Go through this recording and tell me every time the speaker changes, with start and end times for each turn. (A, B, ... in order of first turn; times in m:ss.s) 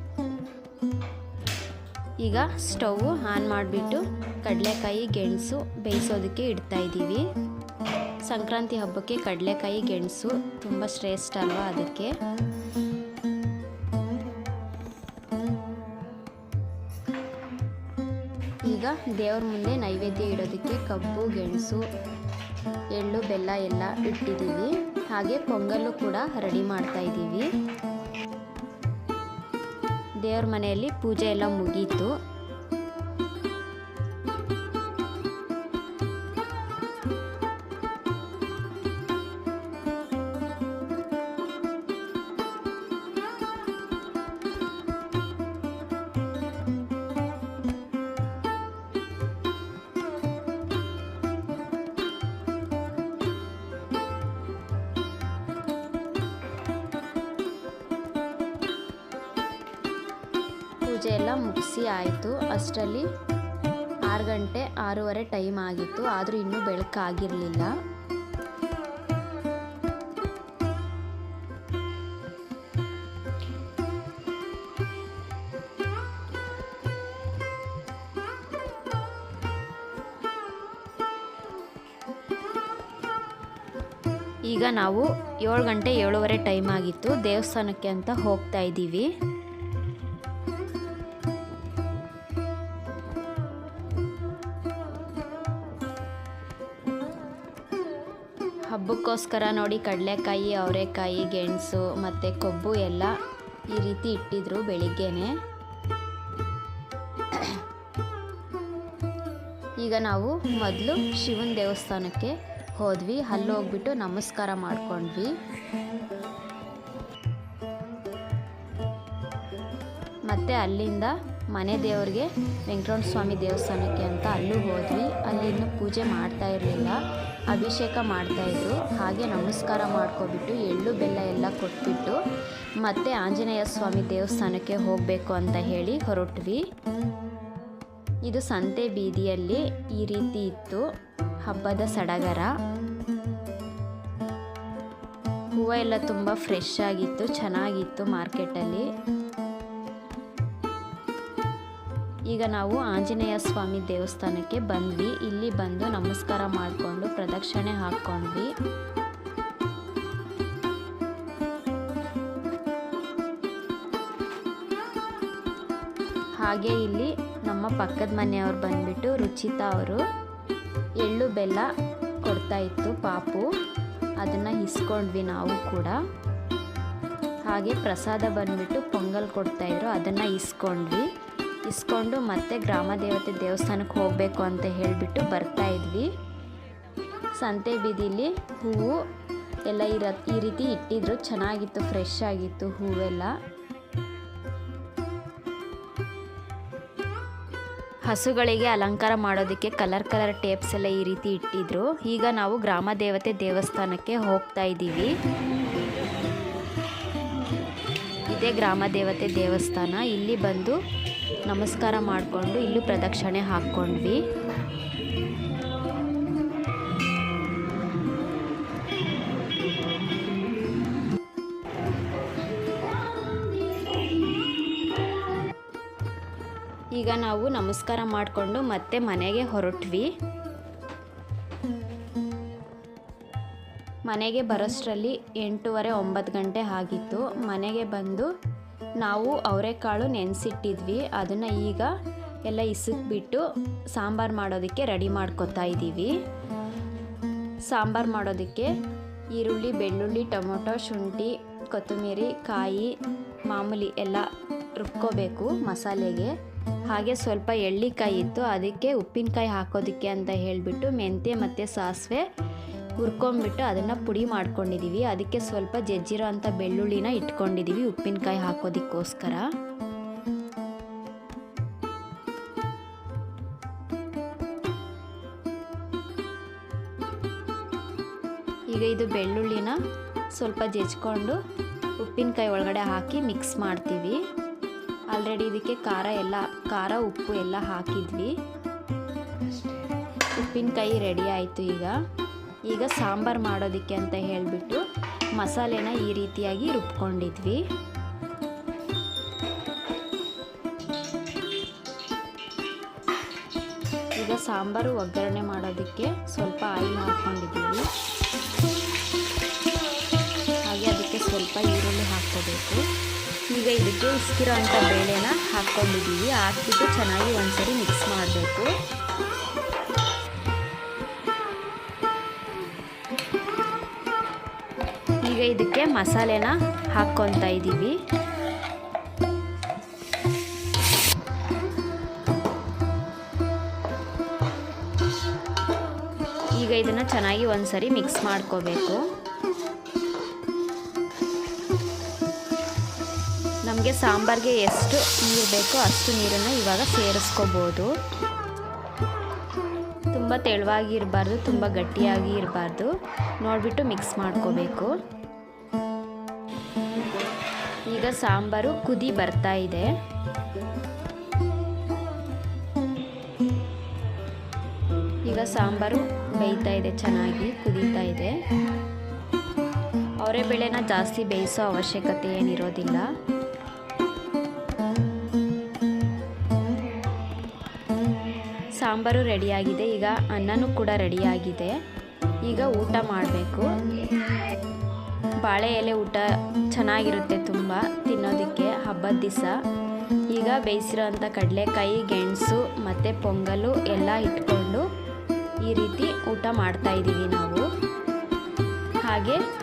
0:02.2-0:07.3 A
0:08.3-0:12.1 A
0:18.7-0:21.8 A
0:22.9-0:27.5 A
0:30.2-0:32.1 A
1:00.9-1:03.1 A
1:04.1-1:07.7 A
1:24.5-1:29.1 A
1:38.7-1:43.1 A
1:43.7-1:45.4 A
1:49.8-1:55.3 A
2:00.3-2:12.2 A
2:12.8-2:16.6 A
2:18.3-2:20.8 A
2:21.4-2:22.5 A
2:25.6-2:28.9 A
2:32.3-2:38.5 A
2:46.4-2:50.0 A
2:51.0-2:51.7 A
2:52.2-2:53.5 A
2:54.2-2:56.0 A
2:57.5-3:01.1 A
3:01.7-3:06.1 A
3:07.4-3:09.0 A
3:09.7-3:13.3 A
3:18.1-3:25.1 A
3:28.3-3:30.8 A
3:31.5-3:34.2 A
3:47.0-3:50.1 A
3:54.1-3:58.3 A
3:59.0-4:01.9 A
4:02.5-4:06.1 A
4:07.7-4:08.7 A
4:09.4-4:12.9 A
4:13.5-4:14.3 A
4:14.8-4:16.3 A
4:16.9-4:22.2 A
4:23.0-4:29.5 A
4:38.7-4:39.8 A
4:40.4-4:41.4 A
4:42.0-4:44.2 A
4:45.1-4:48.4 A
4:50.4-4:52.0 A
4:52.7-4:54.8 A
4:55.4-4:57.6 A
5:04.2-5:07.9 A
5:10.7-5:12.9 A
5:13.5-5:18.7 A
5:25.2-5:28.0 A
5:36.6-5:39.0 A
5:43.6-5:47.9 A
5:50.1-5:54.9 A
5:57.9-5:59.9 A
6:05.3-6:08.4 A
6:10.2-6:13.1 A
6:18.8-6:21.8 A
6:22.5-6:23.7 A
6:25.4-6:29.6 A
6:30.3-6:34.9 A
6:35.6-6:37.7 A
6:39.0-6:39.4 A